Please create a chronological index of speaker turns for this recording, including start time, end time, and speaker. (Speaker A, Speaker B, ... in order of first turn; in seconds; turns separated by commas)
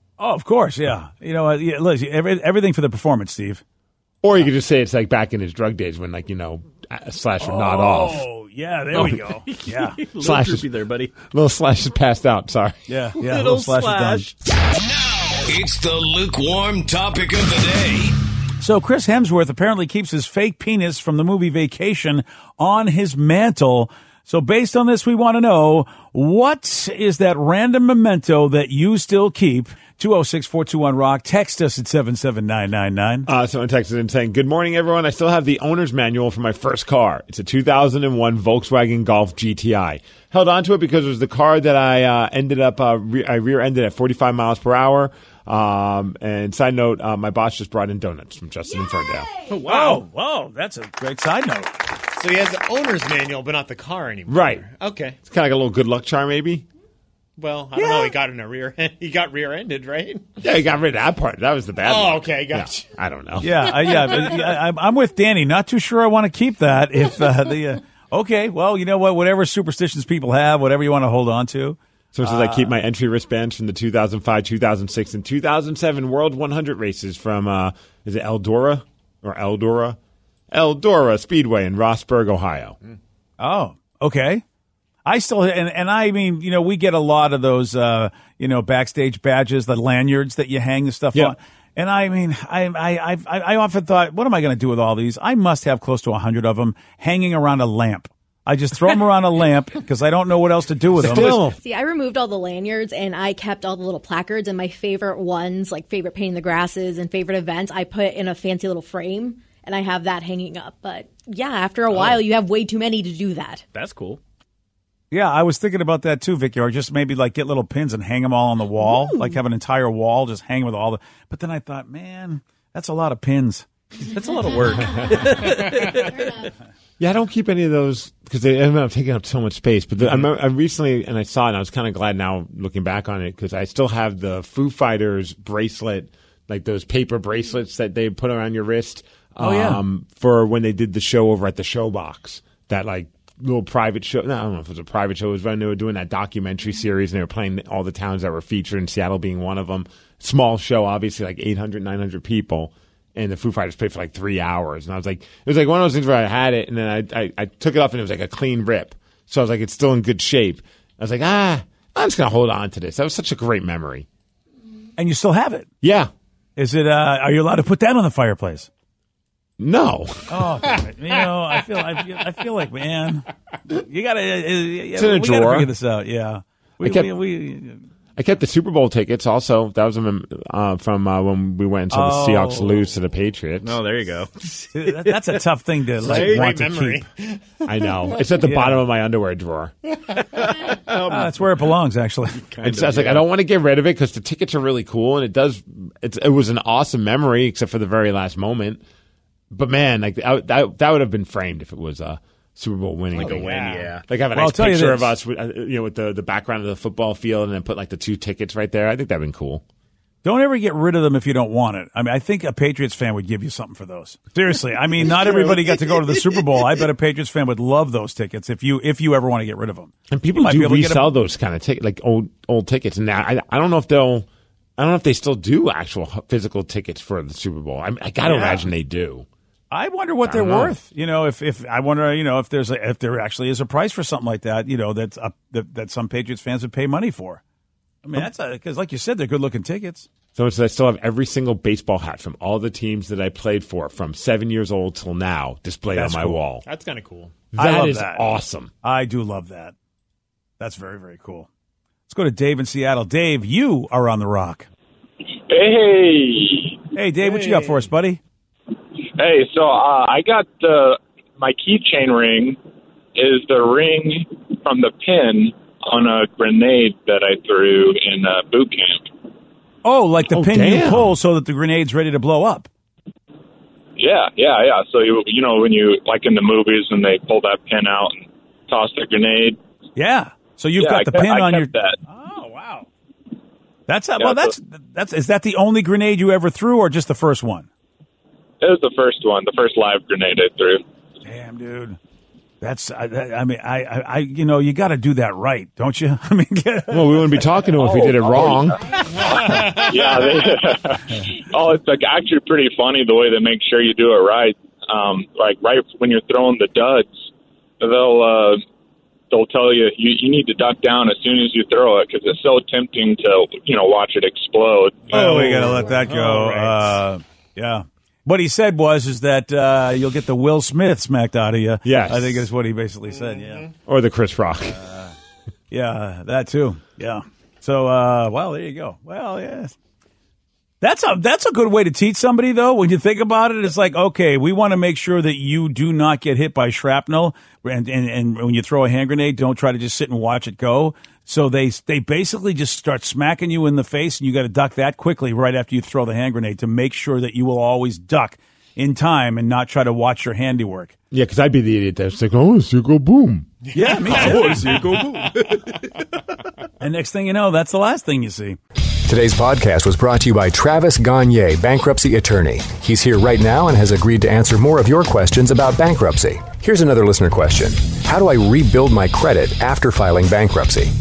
Speaker A: 0.2-3.6, Speaker B: 4.2-8.2, Speaker A: 7.4-10.0, Speaker C: 8.9-11.1, Speaker B: 10.2-10.7, Speaker B: 11.2-12.8, Speaker A: 12.9-14.3, Speaker C: 13.2-14.3, Speaker D: 15.3-18.1, Speaker A: 18.6-33.3, Speaker B: 33.3-49.4, Speaker A: 49.5-51.7, Speaker E: 49.5-50.1, Speaker E: 52.1-55.2, Speaker B: 54.3-54.6, Speaker B: 55.2-56.6, Speaker E: 57.4-60.3, Speaker A: 57.7-58.1, Speaker B: 60.4-64.1, Speaker E: 61.8-62.9, Speaker A: 63.4-72.7, Speaker B: 72.1-80.0, Speaker B: 80.5-82.8, Speaker A: 83.4-84.4, Speaker A: 85.0-101.5, Speaker B: 101.0-101.6, Speaker F: 101.4-113.6, Speaker C: 111.9-112.2, Speaker C: 113.7-114.2, Speaker A: 115.1-123.7, Speaker C: 124.0-126.5, Speaker B: 127.0-164.1, Speaker A: 139.4-139.8, Speaker A: 165.0-165.7, Speaker B: 165.8-166.1, Speaker A: 166.6-168.7, Speaker B: 169.6-170.7, Speaker A: 170.3-177.8, Speaker B: 174.9-175.7, Speaker B: 176.8-177.1, Speaker B: 178.2-183.8, Speaker A: 181.9-182.9, Speaker C: 183.6-185.4, Speaker A: 184.7-187.0, Speaker C: 186.0-186.5, Speaker E: 186.1-187.4, Speaker B: 187.6-189.7, Speaker A: 188.4-188.8, Speaker C: 190.3-191.6, Speaker A: 191.1-192.5, Speaker C: 192.4-193.3, Speaker B: 192.6-198.8, Speaker B: 199.5-209.6, Speaker C: 203.1-204.0, Speaker E: 203.2-204.0, Speaker A: 204.3-205.1, Speaker A: 210.2-221.1, Speaker B: 220.1-224.3, Speaker B: 224.8-229.2, Speaker A: 228.2-228.7, Speaker A: 229.7-237.4, Speaker B: 230.2-230.7, Speaker A: 238.0-240.1, Speaker B: 240.3-246.6, Speaker A: 245.9-246.4, Speaker E: 246.6-247.5, Speaker B: 247.5-248.7, Speaker A: 247.6-249.7, Speaker A: 250.6-251.5, Speaker A: 252.1-254.7, Speaker G: 255.5-256.8, Speaker A: 256.9-258.2, Speaker E: 257.2-257.7, Speaker G: 259.2-262.6, Speaker G: 263.1-269.1, Speaker A: 269.8-272.7, Speaker B: 270.3-271.1, Speaker G: 274.0-279.6, Speaker A: 279.9-282.9, Speaker G: 280.8-282.0, Speaker A: 283.9-287.7, Speaker G: 284.2-284.5, Speaker G: 288.6-290.8, Speaker A: 291.2-292.0, Speaker A: 292.6-298.7, Speaker B: 296.9-298.8, Speaker E: 299.2-299.8, Speaker A: 299.3-299.6, Speaker G: 299.8-307.3, Speaker G: 307.8-308.6, Speaker G: 309.3-315.1, Speaker A: 315.1-323.7, Speaker B: 315.1-315.7, Speaker E: 315.3-316.5, Speaker B: 321.8-322.5, Speaker E: 323.1-323.7, Speaker B: 323.8-324.8, Speaker A: 324.8-325.1, Speaker A: 325.7-329.7, Speaker A: 330.8-350.9, Speaker B: 351.1-353.5, Speaker A: 353.7-355.3, Speaker C: 354.1-355.6, Speaker A: 356.8-358.6, Speaker H: 359.1-370.9